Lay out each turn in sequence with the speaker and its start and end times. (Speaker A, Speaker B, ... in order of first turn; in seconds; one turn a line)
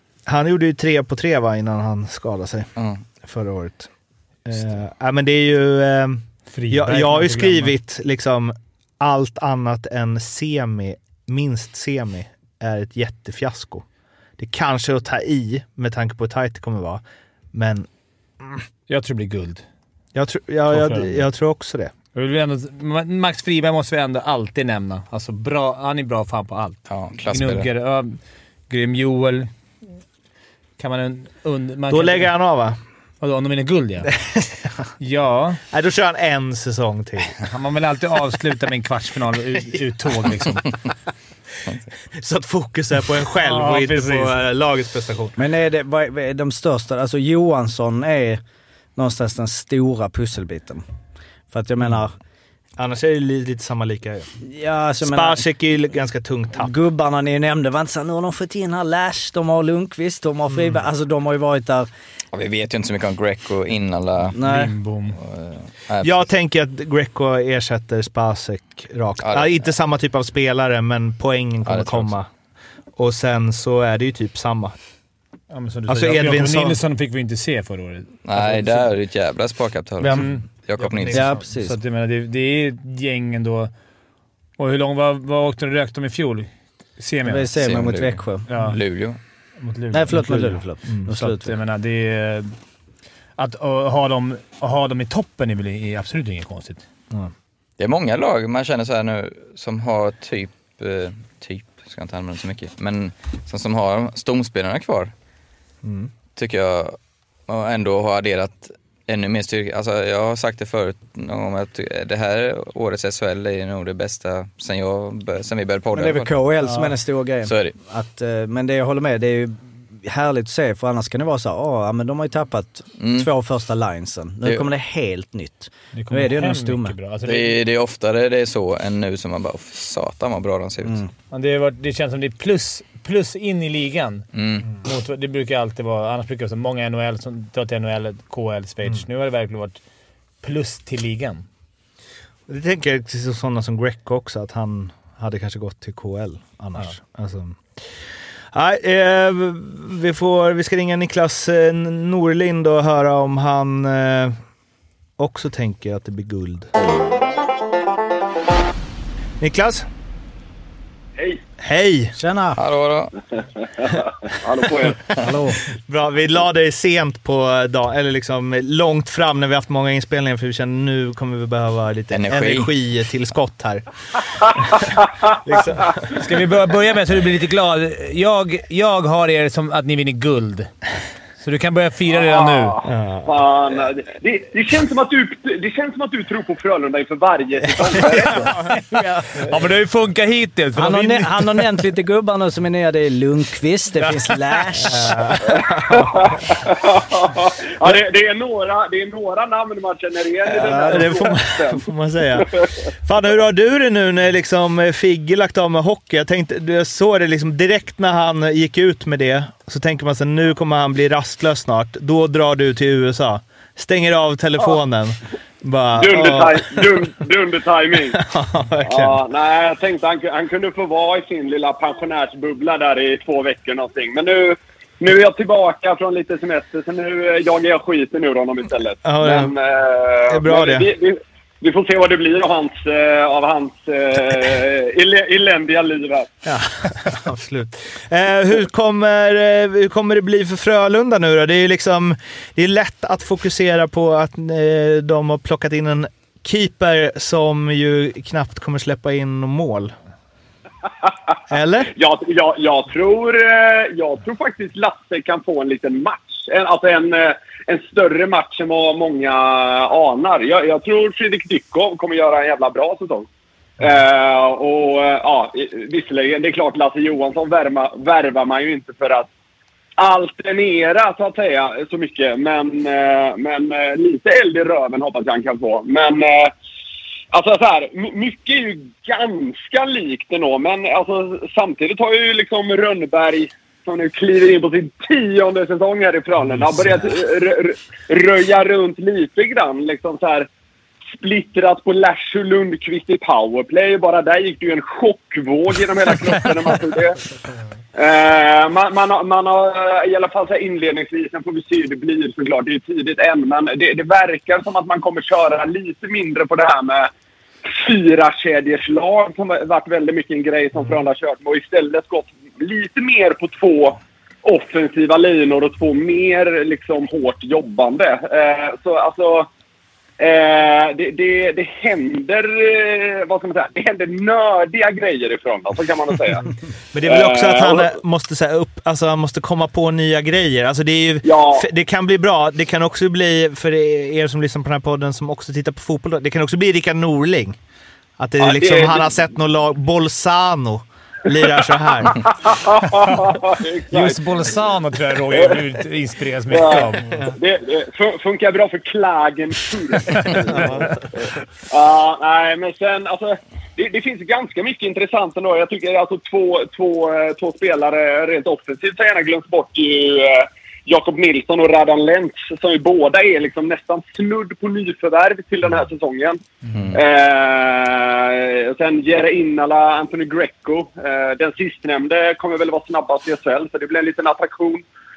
Speaker A: 0.3-2.7
Speaker B: 2.8-3.0
Speaker A: 3.2-3.9
Speaker A: 4.5-13.9
Speaker C: 6.5-7.8
Speaker A: 14.4-17.9
Speaker C: 18.9-19.6
Speaker A: 20.1-21.9
Speaker C: 20.7-21.3
Speaker C: 22.1-29.5
Speaker B: 26.9-27.7
Speaker C: 30.8-32.3
Speaker A: 31.9-32.8
Speaker C: 33.2-34.1
Speaker A: 34.2-34.7
Speaker C: 35.0-35.6
Speaker A: 35.7-37.4
Speaker C: 37.5-40.7
Speaker A: 42.1-45.4
Speaker C: 43.4-44.4
Speaker D: 45.4-48.4
Speaker D: 49.0-50.8
Speaker D: 51.5-52.1
Speaker A: 52.8-54.3
Speaker D: 54.4-55.4
Speaker A: 55.0-56.7
Speaker D: 56.6-61.9
Speaker A: 60.5-60.9
Speaker B: 62.3-64.4
Speaker D: 64.3-64.7
Speaker C: 64.4-65.2
Speaker B: 65.2-66.3
Speaker A: 66.0-72.3
Speaker B: 69.2-69.6
Speaker B: 71.7-72.1
Speaker A: 73.0-74.8
Speaker C: 75.5-78.9
Speaker A: 75.9-76.8
Speaker B: 78.3-81.4
Speaker D: 80.0-80.3
Speaker C: 80.1-83.7
Speaker A: 81.1-81.4
Speaker D: 81.1-81.8
Speaker C: 84.6-87.6
Speaker D: 87.2-88.5
Speaker B: 87.6-89.2
Speaker C: 88.5-88.8
Speaker C: 89.6-92.5
Speaker D: 89.9-91.5
Speaker C: 93.4-96.8
Speaker B: 97.8-105.1
Speaker A: 105.8-106.1
Speaker B: 106.3-107.0
Speaker B: 107.5-116.3
Speaker D: 115.9-127.0
Speaker C: 116.6-116.9
Speaker B: 117.4-117.8
Speaker B: 123.0-123.3
Speaker C: 125.9-127.6
Speaker B: 127.2-131.0
Speaker C: 131.3-134.2
Speaker B: 134.3-134.7
Speaker C: 134.8-139.8
Speaker C: 140.4-141.4
Speaker A: 142.5-147.9
Speaker A: 148.5-154.4
Speaker A: 155.2-156.7
Speaker A: 159.4-159.9
Speaker A: 161.6-162.2
Speaker D: 162.2-162.6
Speaker B: 162.6-163.2
Speaker E: 163.8-165.1
Speaker D: 165.1-165.7
Speaker A: 165.7-173.8
Speaker B: 172.1-172.7
Speaker A: 174.6-176.2
Speaker C: 176.1-180.7
Speaker C: 181.4-182.8
Speaker E: 182.1-188.6
Speaker A: 182.8-183.3
Speaker A: 187.8-188.3
Speaker C: 188.1-191.6
Speaker D: 190.8-195.3
Speaker C: 194.0-194.6
Speaker A: 194.8-196.3
Speaker E: 195.5-202.7
Speaker A: 200.5-217.1
Speaker D: 200.6-201.1
Speaker E: 216.0-218.2
Speaker A: 218.1-219.2
Speaker E: 218.8-236.3
Speaker A: 229.1-229.6
Speaker A: 230.3-230.9
Speaker A: 236.4-249.9
Speaker A: 251.5-251.9
Speaker E: 251.9-263.3
Speaker E: 263.8-269.3
Speaker E: 270.0-276.5
Speaker E: 277.3-290.5
Speaker A: 286.4-287.0
Speaker E: 291.1-297.2
Speaker E: 297.9-307.1
Speaker E: 307.6-319.5
Speaker E: 320.2-326.5
Speaker A: 326.9-337.6
Speaker E: 327.1-327.9
Speaker E: 331.2-331.6
Speaker A: 338.2-342.2
Speaker E: 338.4-339.1
Speaker E: 342.0-344.2
Speaker C: 343.9-347.1
Speaker E: 346.5-366.4
Speaker C: 350.3-350.7
Speaker A: 350.5-350.9
Speaker B: 366.7-367.0
Speaker E: 366.9-374.9